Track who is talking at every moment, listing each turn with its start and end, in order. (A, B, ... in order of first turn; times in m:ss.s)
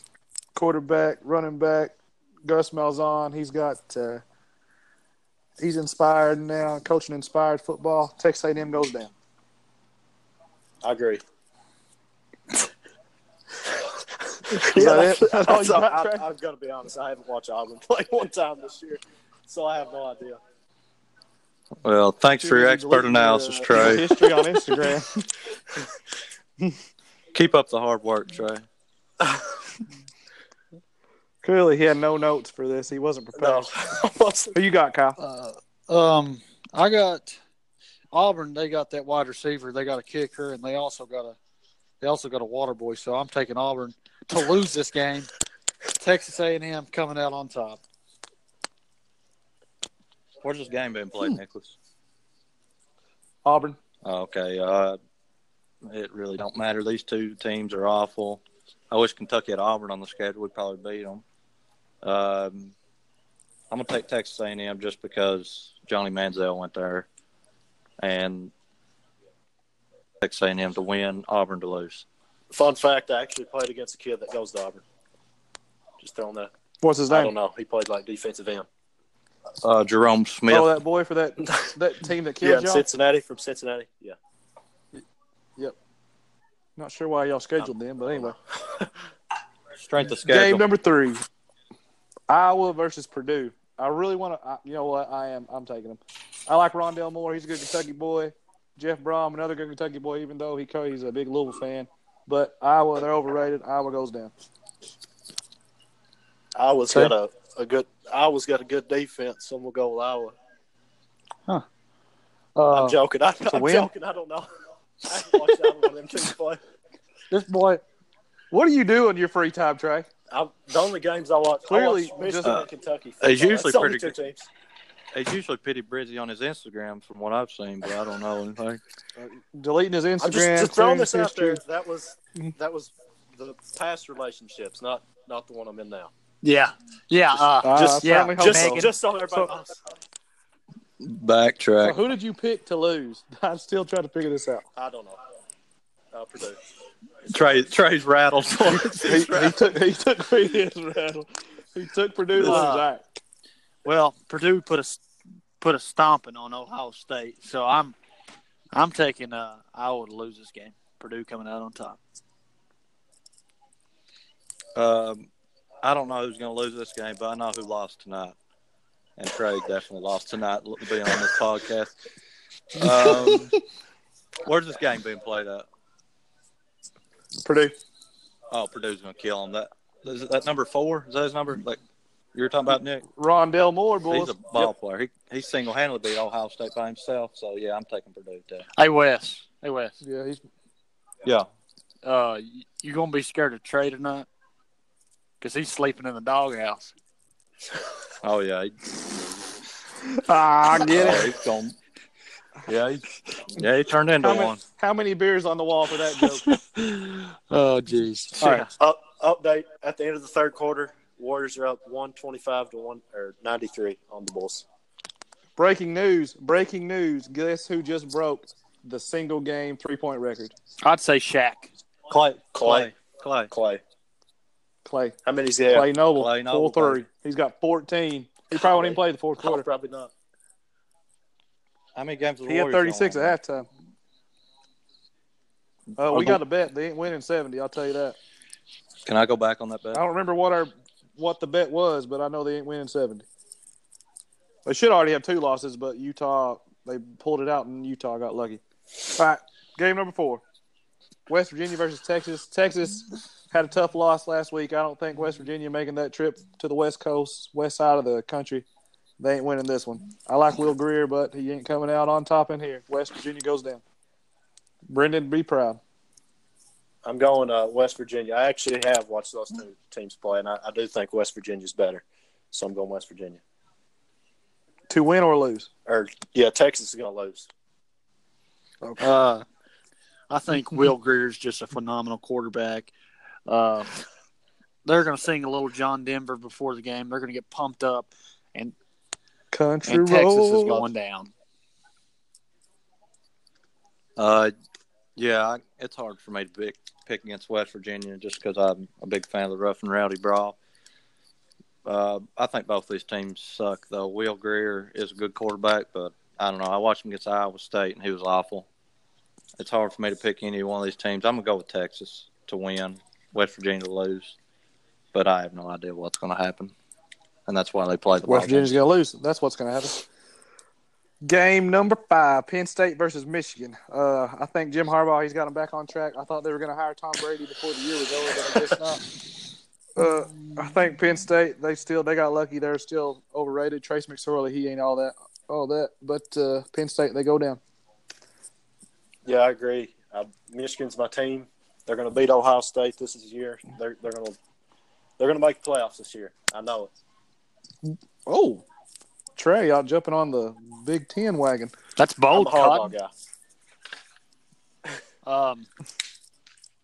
0:00.6-0:01.9 A
0:02.4-0:04.2 A
0:05.6-0:09.1 A
0:10.8-0:11.2 B
0:14.5-0:16.2 A
0:14.5-0:20.4 B
0:21.8-0:24.1 C
0:22.4-0:25.2 A
0:23.9-0:24.6 B
0:27.3-0:28.6 C
0:31.4-0:33.7 A
0:33.4-0:34.5 B
0:34.5-0:35.2 A
0:35.2-0:37.4 D
0:38.1-0:41.4 D
0:42.0-0:45.3 D
0:46.0-0:47.8 D
0:50.4-0:51.8 C
0:53.4-0:53.8 A
0:54.0-0:55.0 C
0:55.9-1:01.2 C
1:02.0-1:02.8 C
1:03.7-1:07.1 C
1:08.0-1:08.5 C
1:10.2-1:12.1 C
1:12.5-1:14.8 B
1:16.0-1:16.5 B
1:16.8-1:17.3 A
1:17.1-1:18.7 B
1:19.6-1:20.7 C
1:20.5-1:22.8 A
1:22.4-1:24.2 B
1:26.8-1:28.4 A
1:27.6-1:28.9 B
1:29.8-1:30.6 C
1:30.2-1:31.2 A
1:32.3-1:44.3 A
1:46.6-1:50.4 B
1:52.6-1:53.0 D
1:52.7-1:54.5 B
1:53.5-1:53.9 A
1:55.0-1:56.6 B
1:57.3-1:57.8 D
1:58.5-2:00.1 A
2:00.3-2:04.5 B
2:01.7-2:02.6 A
2:03.2-2:04.1 C
2:05.1-2:08.8 C
2:09.2-2:11.6 A
2:10.2-2:16.1 B
2:16.4-2:18.9 D
2:17.6-2:19.5 A
2:17.7-2:19.8 B
2:21.0-2:22.0 C
2:21.8-2:24.6 A
2:24.8-2:25.2 B
2:26.1-2:26.6 B
2:27.3-2:29.7 C
2:29.0-2:33.0 A
2:32.4-2:32.9 D
2:33.8-2:35.0 D
2:35.6-2:38.0 D
2:38.7-2:42.0 D
2:44.8-2:45.3 C
2:45.8-2:48.4 C
2:49.2-2:51.9 C
2:52.8-2:53.5 C
2:54.4-2:55.6 C
2:57.4-2:57.8 A
2:58.5-3:01.8 C
3:02.3-3:03.0 C
3:03.2-3:04.7 A
3:04.1-3:08.6 C
3:08.8-3:10.0 D
3:10.0-3:10.4 A
3:12.0-3:14.3 D
3:15.4-3:16.9 D
3:18.2-3:19.0 C
3:20.1-3:21.3 A
3:20.9-3:21.8 C
3:22.7-3:24.6 C
3:24.2-3:26.5 A
3:26.2-3:28.6 D
3:28.4-3:28.7 A
3:28.8-3:34.6 B
3:35.6-3:40.5 A
3:40.8-3:41.7 D
3:42.1-3:43.5 C
3:42.6-3:43.0 B
3:43.5-3:43.8 B
3:44.8-3:45.2 A
3:45.2-3:45.9 B
3:45.7-3:49.6 A
3:46.1-3:47.0 C
3:48.6-3:50.1 B
3:52.0-3:53.4 C
3:52.4-3:53.7 A
3:56.0-3:58.2 A
3:56.0-3:56.4 C
3:59.1-4:00.0 C
3:59.9-4:03.3 A
4:04.6-4:08.6 A
4:09.1-4:10.4 A
4:11.3-4:18.6 A
4:19.2-4:23.8 A
4:24.9-4:25.8 A
4:27.0-4:33.4 B
4:34.9-4:35.7 A
4:35.9-4:37.5 B
4:38.8-4:39.1 A
4:39.0-4:39.4 D
4:40.3-4:42.9 D
4:43.5-4:44.0 D
4:44.8-4:48.7 D
4:49.5-4:50.8 A
4:49.9-4:51.3 D
4:54.2-4:54.5 C
4:55.2-5:00.6 C
5:01.8-5:08.7 C
5:09.6-5:14.4 C
5:15.1-5:16.7 C
5:17.5-5:18.8 C
5:18.2-5:20.0 A
5:21.2-5:29.0 A
5:30.0-5:37.6 A
5:39.2-5:44.4 B
5:45.2-5:46.9 B
5:48.3-5:48.6 A
5:49.4-5:51.7 A
5:52.0-5:52.9 D
5:52.3-5:53.1 B
5:55.2-5:55.7 D